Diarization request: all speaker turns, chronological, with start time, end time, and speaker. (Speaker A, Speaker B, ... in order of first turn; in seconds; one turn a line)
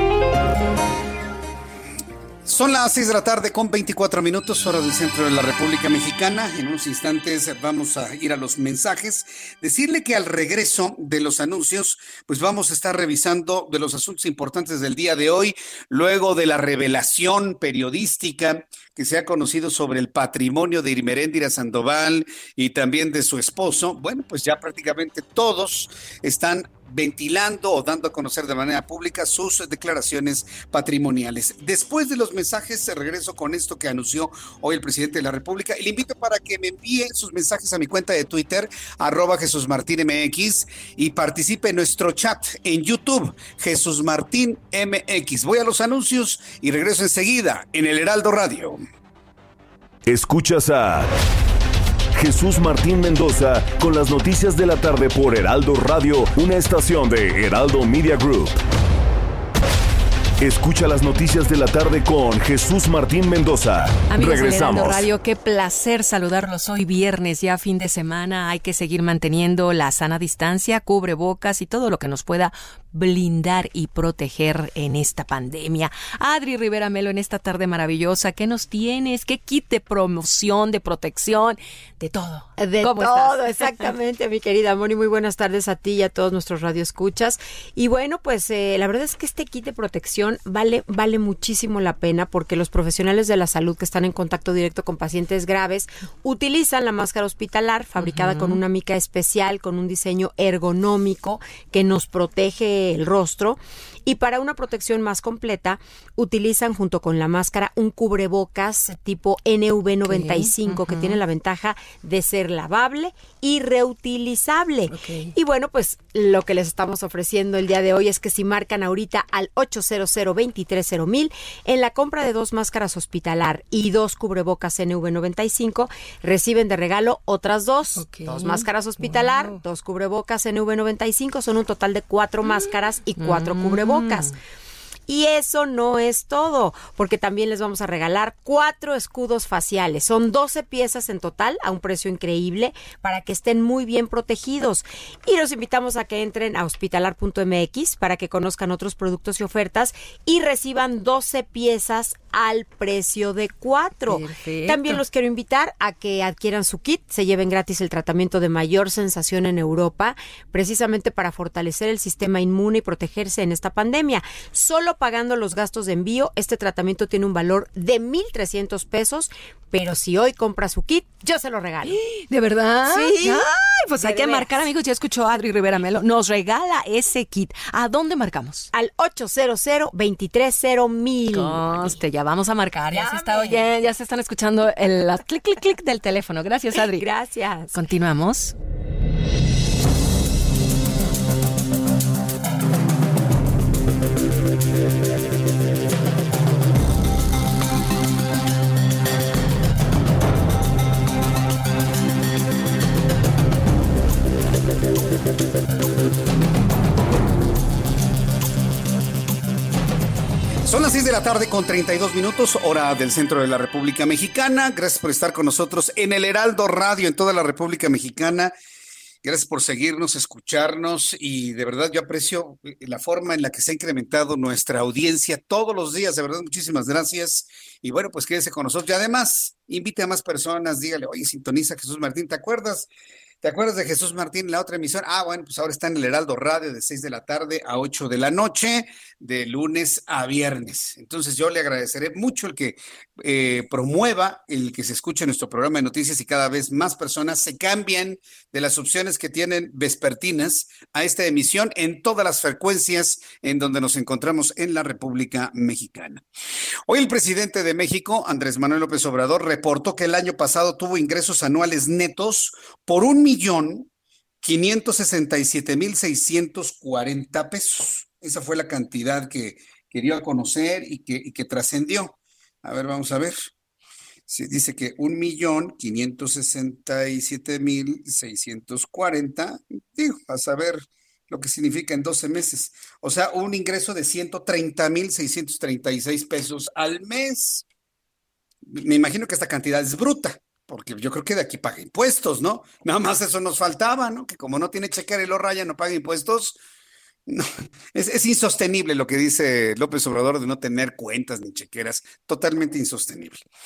Speaker A: 2.5-48.8
Speaker B: 50.1-51.1
Speaker B: 52.2-58.6
Speaker B: 60.4-65.1
Speaker C: 64.1-83.9
Speaker D: 82.6-134.3
Speaker C: 98.0-98.6
Speaker C: 110.1-111.2
Speaker C: 114.9-115.3
Speaker C: 128.0-129.6
Speaker C: 133.2-134.3
Speaker D: 135.1-172.0
Speaker C: 154.1-155.0
Speaker C: 171.9-178.7
Speaker D: 172.9-173.5
Speaker D: 174.0-174.7
Speaker D: 178.7-181.9
Speaker C: 181.3-187.1
Speaker D: 183.0-183.7
Speaker D: 186.8-187.8
Speaker C: 187.7-188.5
Speaker A: 210.7-218.5
Speaker A: 219.2-232.9
Speaker A: 233.4-256.2
Speaker A: 256.9-263.9
Speaker A: 264.4-273.5
Speaker A: 274.3-287.6
Speaker A: 288.6-296.6
Speaker A: 297.3-303.4